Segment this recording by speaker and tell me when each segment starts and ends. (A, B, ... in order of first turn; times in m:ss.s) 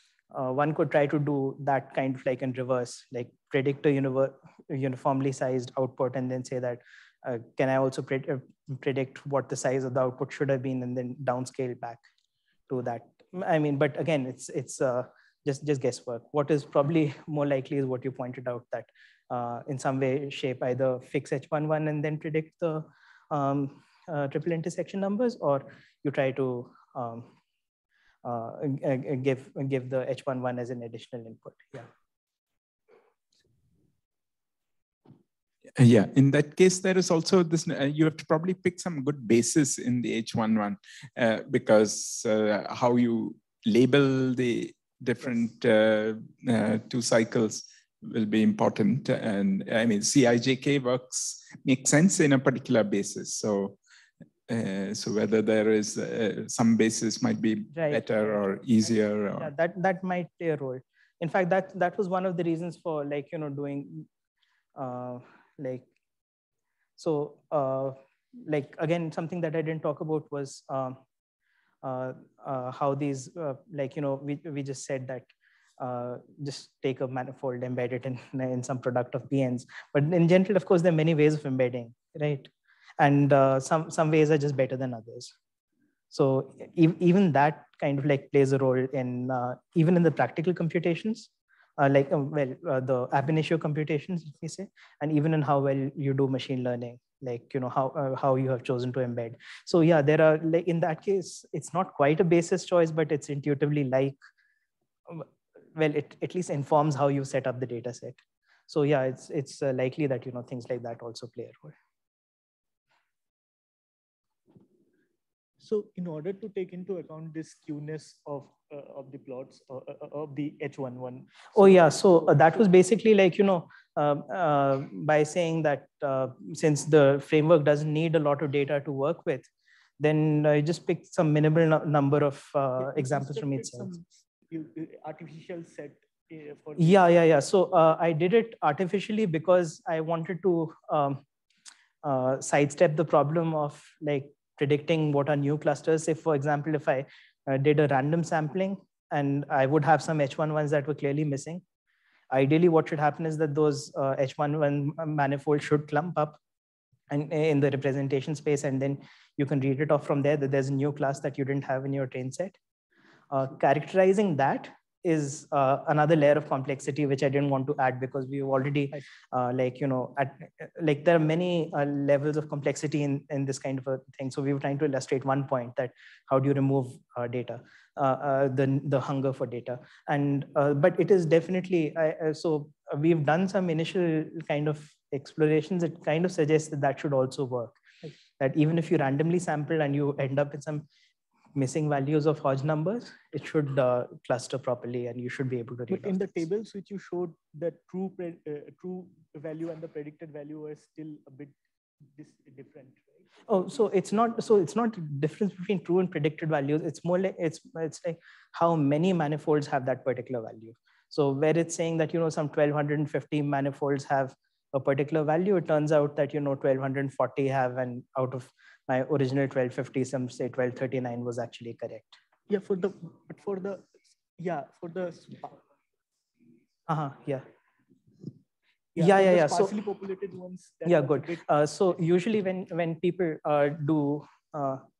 0:00.3-0:12.0 A
0:12.7-0:27.3 A
0:28.2-0:31.9 A
0:35.8-0:53.8 B
0:54.5-0:59.5 B
0:57.7-1:04.1 A
1:04.8-1:05.9 A
1:07.0-1:11.0 A
1:11.8-1:25.3 A
1:26.1-1:44.2 A
1:45.1-1:51.8 A
1:55.6-2:02.6 C
2:01.6-2:09.5 A
2:10.0-2:13.9 A
2:12.8-2:17.0 C
2:16.8-2:21.2 A
2:22.0-2:31.6 A
2:32.3-2:36.4 A
2:37.1-2:42.6 A
2:43.3-3:07.8 A
3:08.4-3:10.9 A
3:11.6-3:16.5 A
3:15.9-3:21.6 C
3:22.2-3:23.2 C
3:23.5-3:42.2 A
3:42.5-3:45.6 C
3:46.9-3:47.4 A
3:49.0-3:51.5 C
3:49.0-3:49.8 A
3:50.9-3:54.8 A